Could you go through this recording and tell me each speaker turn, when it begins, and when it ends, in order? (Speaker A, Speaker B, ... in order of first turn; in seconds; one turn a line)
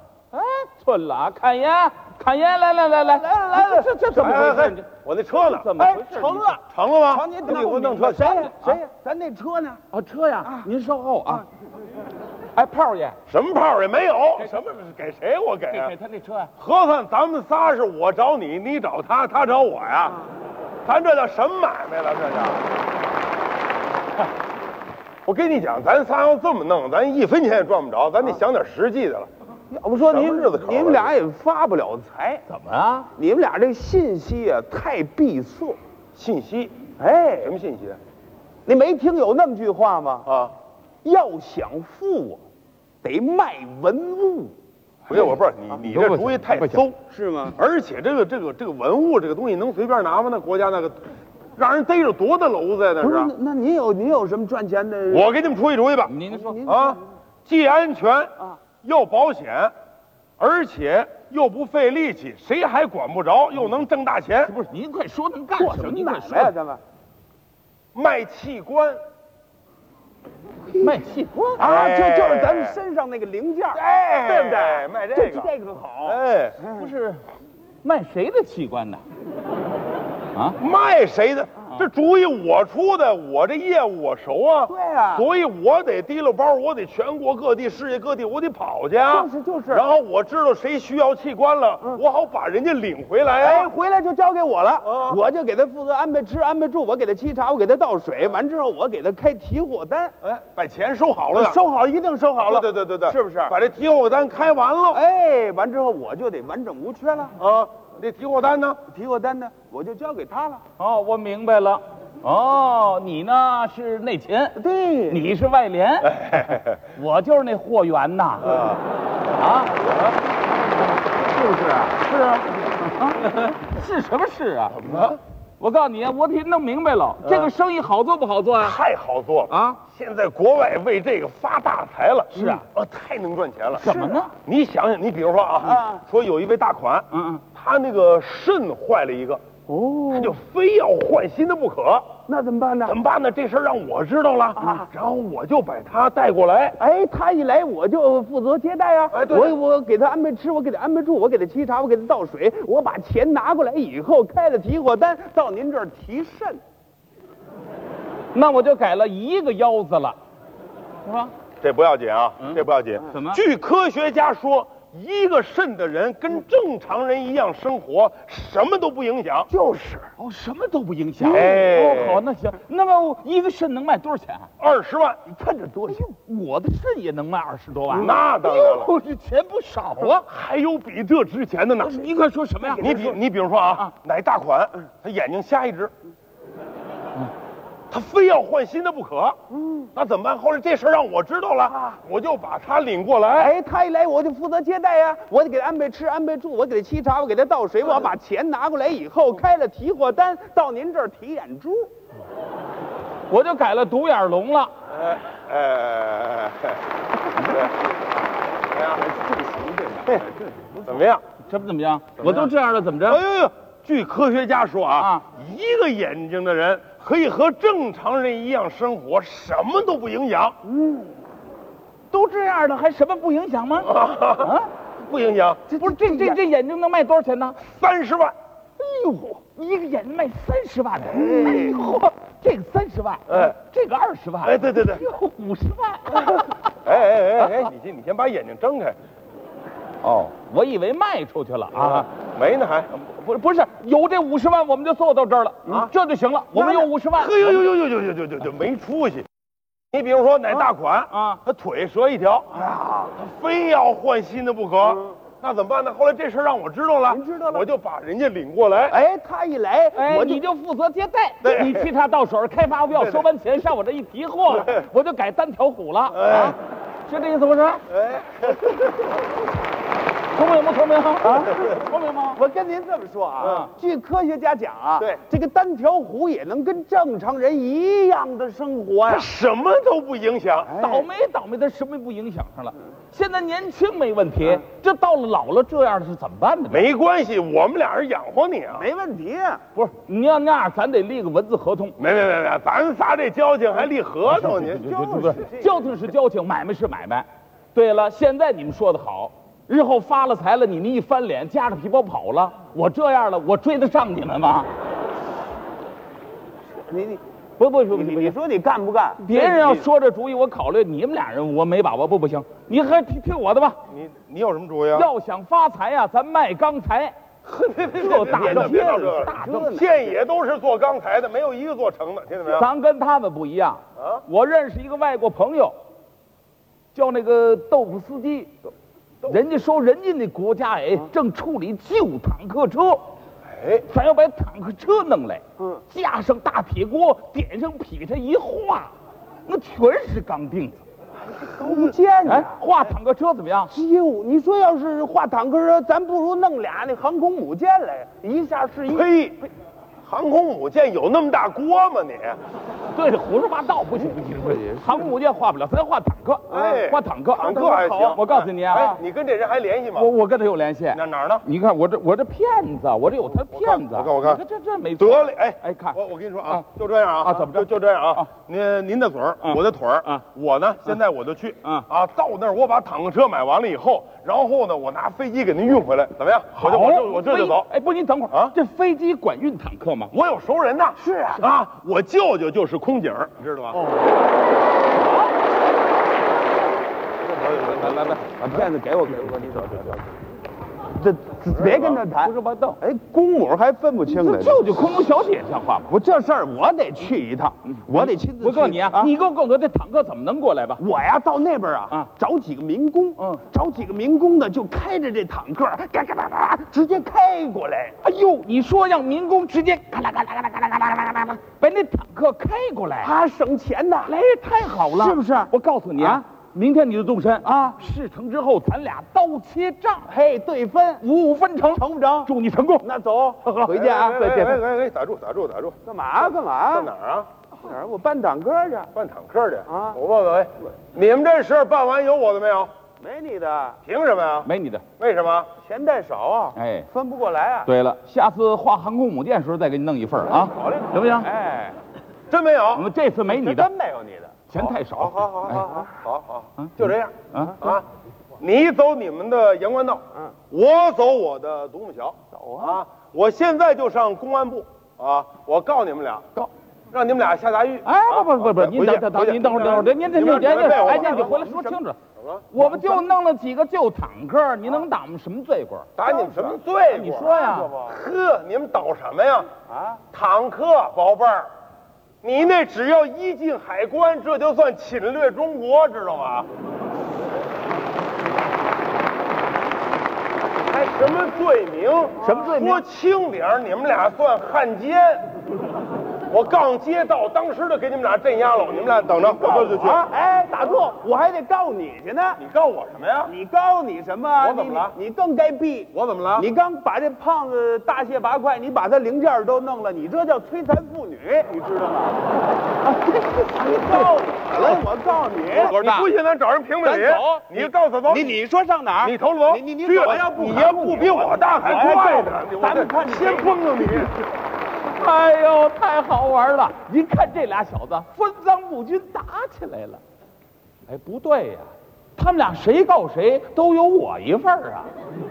Speaker A: 0.3-4.9
Speaker B: 3.0-3.9
Speaker C: 4.1-5.7
Speaker A: 5.4-6.5
Speaker B: 5.8-9.8
Speaker C: 6.7-8.5
Speaker A: 9.9-11.4
Speaker A: 12.5-13.2
Speaker C: 13.3-15.9
Speaker A: 15.7-16.5
Speaker C: 16.6-20.2
Speaker C: 20.8-22.6
Speaker C: 25.2-29.3
Speaker B: 29.7-32.4
Speaker C: 30.0-31.1
Speaker A: 32.5-33.1
Speaker B: 33.1-35.8
Speaker C: 36.1-36.7
Speaker B: 37.0-37.5
Speaker C: 37.4-38.0
Speaker B: 38.6-40.3
Speaker C: 40.2-40.5
Speaker B: 41.0-42.4
Speaker B: 43.0-44.5
Speaker C: 45.1-47.0
Speaker A: 45.8-46.9
Speaker B: 47.1-47.6
Speaker C: 47.5-53.3
Speaker B: 53.0-55.3
Speaker C: 55.1-59.7
Speaker A: 56.1-56.6
Speaker B: 56.3-57.0
Speaker C: 60.4-64.5
Speaker A: 64.4-66.5
Speaker B: 65.5-66.8
Speaker C: 67.9-69.0
Speaker A: 70.7-71.7
Speaker B: 71.6-76.9
Speaker C: 71.6-72.8
Speaker C: 73.7-75.5
Speaker C: 76.0-76.6
Speaker A: 76.6-77.2
Speaker A: 77.8-79.0
Speaker C: 80.6-93.7
Speaker B: 84.7-85.3
Speaker B: 89.1-89.8
Speaker B: 93.4-100.1
Speaker C: 94.8-95.2
Speaker C: 100.2-101.6
Speaker B: 101.3-103.5
Speaker C: 102.4-105.0
Speaker B: 104.9-107.3
Speaker C: 107.4-108.8
Speaker B: 108.9-110.6
Speaker A: 110.8-114.6
Speaker B: 114.5-115.2
Speaker A: 115.1-118.8
Speaker C: 118.4-118.8
Speaker A: 119.3-119.8
Speaker A: 121.1-125.1
Speaker C: 124.8-125.2
Speaker A: 125.6-128.8
Speaker C: 127.2-127.5
Speaker C: 128.6-133.9
Speaker A: 129.5-129.8
Speaker A: 132.3-132.6
Speaker A: 133.8-134.3
Speaker B: 133.8-134.3
Speaker C: 134.4-139.4
Speaker B: 135.6-136.0
Speaker A: 137.1-137.4
Speaker B: 139.7-140.3
Speaker C: 140.1-142.1
Speaker B: 142.3-143.0
Speaker C: 142.8-146.8
Speaker B: 144.6-144.8
Speaker B: 146.8-156.6
Speaker C: 149.1-149.5
Speaker A: 158.3-160.2
Speaker A: 161.0-161.3
Speaker C: 161.6-169.5
Speaker A: 162.5-163.4
Speaker B: 169.5-170.1
Speaker A: 170.2-174.5
Speaker C: 171.2-172.2
Speaker C: 174.6-175.2
Speaker B: 175.2-176.1
Speaker A: 175.9-180.2
Speaker C: 177.9-178.9
Speaker C: 180.1-182.0
Speaker A: 181.8-182.9
Speaker B: 182.6-183.2
Speaker C: 182.8-185.9
Speaker C: 187.9-189.4
Speaker B: 189.6-189.9
Speaker C: 189.9-193.5
Speaker B: 193.3-201.9
Speaker A: 203.3-204.7
Speaker C: 204.9-206.8
Speaker B: 208.8-211.1
Speaker C: 210.8-211.2
Speaker A: 211.4-213.2
Speaker C: 212.2-212.5
Speaker C: 213.1-220.6
Speaker A: 214.9-215.2
Speaker B: 220.7-221.2
Speaker A: 222.1-224.7
Speaker C: 223.8-225.6
Speaker B: 225.7-226.4
Speaker A: 225.8-227.6
Speaker C: 227.6-228.3
Speaker A: 228.8-236.7
Speaker C: 231.1-231.8
Speaker C: 233.3-233.5
Speaker C: 234.4-235.0
Speaker C: 236.8-239.0
Speaker A: 237.4-237.7
Speaker A: 240.0-242.1
Speaker C: 241.7-242.9
Speaker A: 242.9-247.7
Speaker C: 246.6-249.2
Speaker C: 249.9-259.0
Speaker A: 250.6-251.4
Speaker B: 252.6-253.1
Speaker B: 257.1-257.6
Speaker B: 258.9-260.4
Speaker A: 259.9-266.5
Speaker C: 261.4-261.9
Speaker C: 262.9-263.2
Speaker C: 264.6-264.8
Speaker C: 266.1-266.6
Speaker A: 267.1-267.8
Speaker C: 267.9-268.8
Speaker A: 270.3-272.4
Speaker B: 271.2-271.7
Speaker B: 272.3-279.3
Speaker A: 273.4-273.7
Speaker C: 279.1-280.7
Speaker B: 280.7-281.1
Speaker A: 280.8-286.9
Speaker C: 286.7-288.8
Speaker B: 288.7-289.6
Speaker A: 289.7-291.9
Speaker C: 292.0-294.8
Speaker A: 294.2-304.7
Speaker B: 294.6-296.0
Speaker B: 306.7-307.2
Speaker A: 307.6-308.3
Speaker B: 307.9-309.8
Speaker A: 309.2-313.8
Speaker C: 313.9-315.1
Speaker A: 314.9-317.1
Speaker C: 317.4-322.7
Speaker A: 318.0-319.7
Speaker B: 318.1-320.2
Speaker A: 322.4-325.7
Speaker A: 326.9-328.5
Speaker A: 329.2-333.0
Speaker C: 333.5-333.9
Speaker A: 333.9-338.9
Speaker A: 339.5-340.8
Speaker B: 341.4-342.5
Speaker C: 341.6-341.9
Speaker A: 342.2-343.7
Speaker B: 343.7-349.1
Speaker C: 348.9-349.5
Speaker C: 350.0-352.4
Speaker A: 352.9-359.0
Speaker C: 356.5-360.1
Speaker B: 356.5-356.8
Speaker B: 357.4-358.2
Speaker A: 359.9-366.6
Speaker C: 360.9-361.4
Speaker C: 363.3-364.4
Speaker C: 365.0-377.7
Speaker A: 367.2-368.3
Speaker A: 369.4-370.2
Speaker A: 376.6-380.1
Speaker C: 380.1-383.8
Speaker B: 381.0-381.4
Speaker C: 387.2-388.2
Speaker B: 388.4-390.1
Speaker B: 390.9-394.7
Speaker C: 391.5-392.0
Speaker A: 392.2-392.8
Speaker A: 394.1-395.9
Speaker B: 395.9-399.1
Speaker A: 397.9-400.8
Speaker B: 400.8-408.0
Speaker A: 403.2-403.4
Speaker A: 408.0-413.1
Speaker B: 413.0-414.1
Speaker A: 414.1-420.1
Speaker B: 414.9-416.2
Speaker B: 417.4-417.8
Speaker B: 420.1-421.0
Speaker A: 421.0-422.9
Speaker B: 421.7-424.2
Speaker A: 423.4-424.6
Speaker C: 423.7-425.8
Speaker B: 425.9-426.9
Speaker C: 426.7-427.3
Speaker B: 427.6-428.9
Speaker C: 428.9-432.7
Speaker B: 429.7-430.0
Speaker B: 433.0-433.8
Speaker C: 433.8-435.5
Speaker A: 434.4-434.8
Speaker B: 435.6-437.7
Speaker A: 436.6-436.9
Speaker A: 437.6-441.3
Speaker B: 440.3-441.8
Speaker C: 442.3-442.9
Speaker A: 442.7-443.7
Speaker B: 443.3-444.4
Speaker A: 444.5-445.7
Speaker C: 444.6-447.8
Speaker B: 445.5-445.9
Speaker C: 448.4-461.5
Speaker B: 452.3-452.8
Speaker A: 457.8-462.0
Speaker B: 460.1-461.8
Speaker C: 462.2-462.5
Speaker A: 462.5-465.9
Speaker B: 462.6-463.0
Speaker C: 466.0-469.5
Speaker B: 466.0-466.6
Speaker A: 466.9-467.7
Speaker B: 467.2-468.0
Speaker B: 469.7-470.0
Speaker C: 470.1-471.5
Speaker C: 472.2-476.5
Speaker C: 480.7-485.3
Speaker A: 482.2-482.8
Speaker C: 486.3-490.1
Speaker B: 489.2-492.4
Speaker C: 492.4-493.3
Speaker B: 493.2-502.2
Speaker C: 494.4-494.9
Speaker C: 495.9-496.4
Speaker A: 502.9-504.1
Speaker B: 503.5-506.1
Speaker C: 504.5-504.8
Speaker C: 505.5-508.4
Speaker B: 506.8-514.1
Speaker C: 509.0-514.1
Speaker A: 514.7-520.0
Speaker A: 520.9-524.9